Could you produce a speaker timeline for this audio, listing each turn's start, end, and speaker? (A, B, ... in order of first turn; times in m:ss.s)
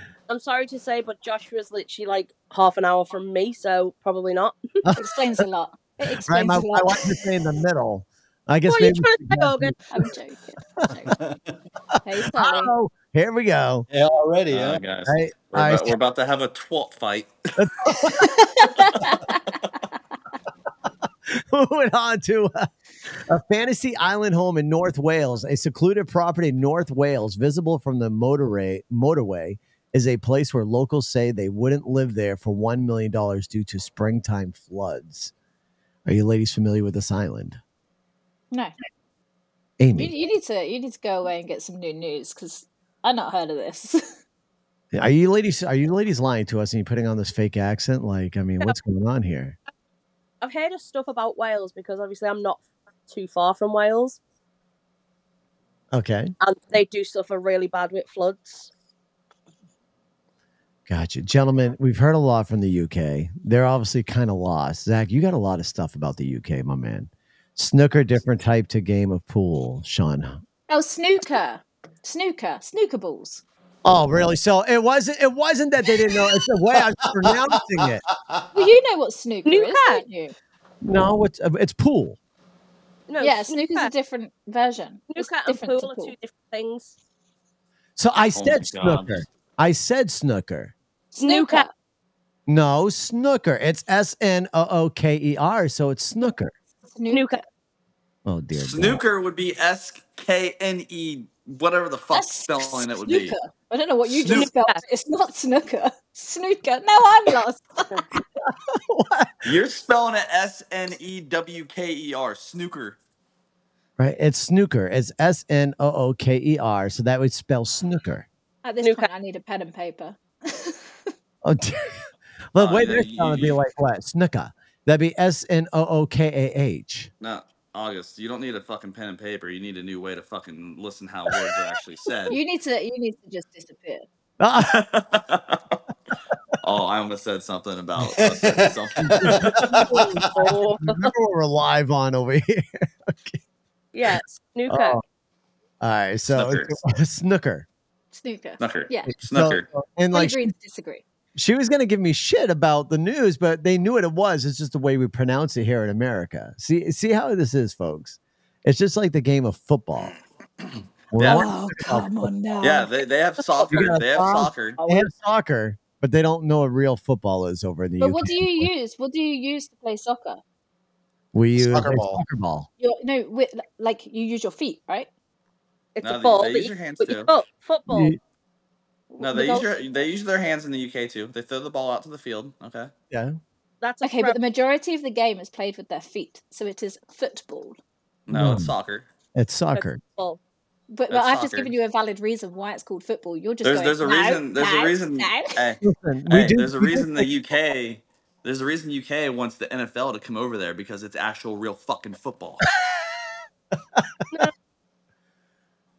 0:00.3-0:04.8 A
0:04.8-0:05.4 B
0:05.0-0:07.0 C
0:06.0-0:06.6 A
0:06.2-0:10.0 B
0:08.7-0:09.8 A
0:09.9-0:11.2 C
0:11.1-0:11.4 D
0:12.0-0:12.8 C
0:12.3-0:13.9 B
0:13.9-0:14.8 D
0:14.5-0:17.3 E
0:15.1-0:16.0 B
0:17.6-0:18.4 B
0:18.2-0:19.4 C
0:21.3-0:22.7 B
0:23.3-0:35.3 B
0:36.1-0:37.6 B
0:39.8-0:40.1 B
0:40.0-0:44.1 C
0:44.9-0:49.6 B
0:50.4-0:54.2 A
0:55.9-0:56.3 B
0:56.4-0:58.7 A
1:00.9-1:10.4 B
1:10.7-1:13.4 C
1:13.8-1:18.0 B
1:17.2-1:17.5 D
1:18.5-1:20.4 C
1:19.5-1:20.0 A
1:20.8-1:22.2 B
1:23.1-1:23.9 A
1:23.2-1:26.1 C
1:25.1-1:26.9 A
1:28.0-1:30.7 B
1:28.4-1:29.2 E
1:31.1-1:31.7 C
1:31.2-1:31.6 A
1:32.5-1:36.5 B
1:37.0-1:37.4 C
1:37.1-1:37.4 A
1:38.3-1:39.0 B
1:38.6-1:43.4 E
1:42.1-1:48.0 C
1:44.2-1:44.5 E
1:44.3-1:44.8 A
1:48.4-1:49.3 B
1:49.4-1:53.0 E
1:54.0-1:58.3 B
1:58.6-2:00.9 C
1:58.8-1:59.1 A
2:01.4-2:02.0 B
2:02.5-2:07.1 B
2:02.6-2:03.6 E
2:07.2-2:12.4 E
2:12.3-2:14.1 C
2:14.4-2:14.8 B
2:14.6-2:15.8 E
2:16.6-2:19.5 E
2:18.1-2:20.3 D
2:19.0-2:23.4 B
2:20.3-2:21.1 A
2:23.9-2:25.0 A
2:24.7-2:25.0 B
2:25.8-2:27.7 B
2:26.3-2:26.7 E
2:28.1-2:29.1 C
2:28.6-2:29.6 E
2:29.1-2:30.4 B
2:30.1-2:31.0 C
2:31.4-2:40.2 B
2:41.1-2:42.3 B
2:41.1-2:41.5 E
2:41.2-2:42.9 C
2:42.6-2:44.8 E
2:43.7-2:44.0 A
2:43.7-2:48.7 B
2:44.8-2:45.1 A
2:48.0-2:50.4 C
2:51.3-2:52.7 B
2:51.6-2:52.2 D
2:52.8-2:55.1 C
2:56.0-2:58.2 A
2:56.0-2:57.3 E
2:57.9-2:58.2 B
2:59.1-2:59.7 C
2:59.2-3:02.9 E
3:03.1-3:03.4 B
3:03.8-3:04.4 A
3:04.0-3:07.8 C
3:08.3-3:09.1 E
3:08.3-3:08.7 B
3:09.4-3:10.0 B
3:09.7-3:10.4 A
3:10.9-3:15.6 C
3:11.1-3:11.7 E
3:13.6-3:22.6 E
3:15.8-3:17.3 B
3:24.0-3:24.2 B